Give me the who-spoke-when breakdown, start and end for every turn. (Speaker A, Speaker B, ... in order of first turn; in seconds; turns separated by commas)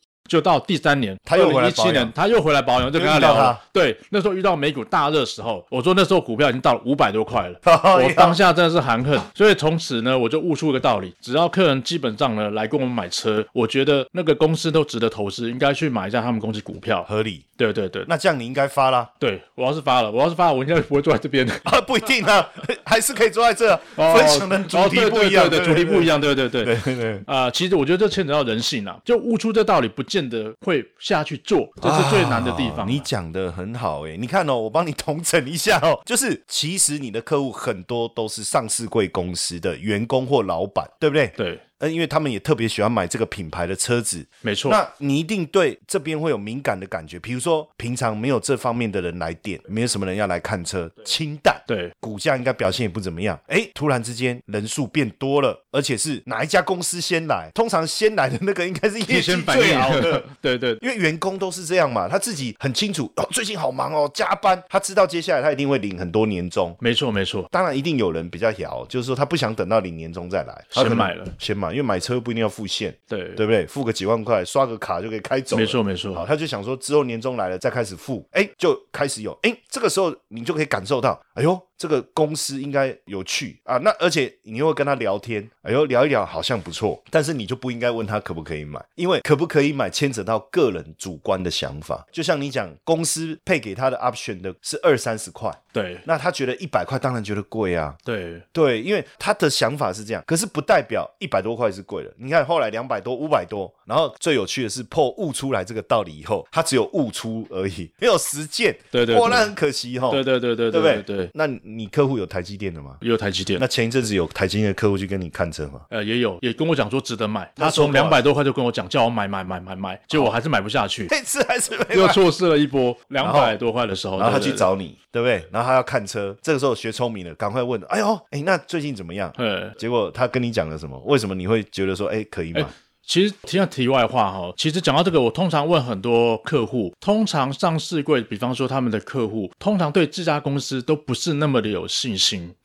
Speaker A: 0.3-18.1, Speaker B: 1.3-2.1, Speaker B: 2.9-3.6, Speaker B: 7.6-8.4, Speaker B: 17.1-17.5, Speaker B: 18.1-19.1, Speaker A: 19.2-21.7, Speaker B: 21.6-27.2, Speaker A: 23.9-33.1, Speaker B: 31.8-60.3, Speaker A: 41.4-41.6, Speaker A: 44.4-44.8, Speaker A: 51.7-51.9, Speaker A: 59.1-60.8, Speaker B: 60.8-66.8, Speaker A: 66.8-67.5, Speaker B: 67.5-98.0, Speaker A: 70.7-71.3, Speaker A: 73.1-73.4, Speaker A: 75.5-76.3, Speaker A: 95.7-96.0, Speaker A: 98.0-98.5, Speaker B: 98.5-113.0, Speaker A: 108.9-109.5, Speaker A: 110.1-111.3, Speaker A: 113.0-113.6, Speaker B: 113.6-115.9, Speaker A: 115.9-121.1, Speaker B: 117.6-118.2, Speaker B: 121.1-122.2, Speaker A: 121.9-124.7, Speaker B: 123.2-123.6, Speaker B: 124.2-132.7, Speaker A: 129.4-129.8, Speaker A: 132.5-142.6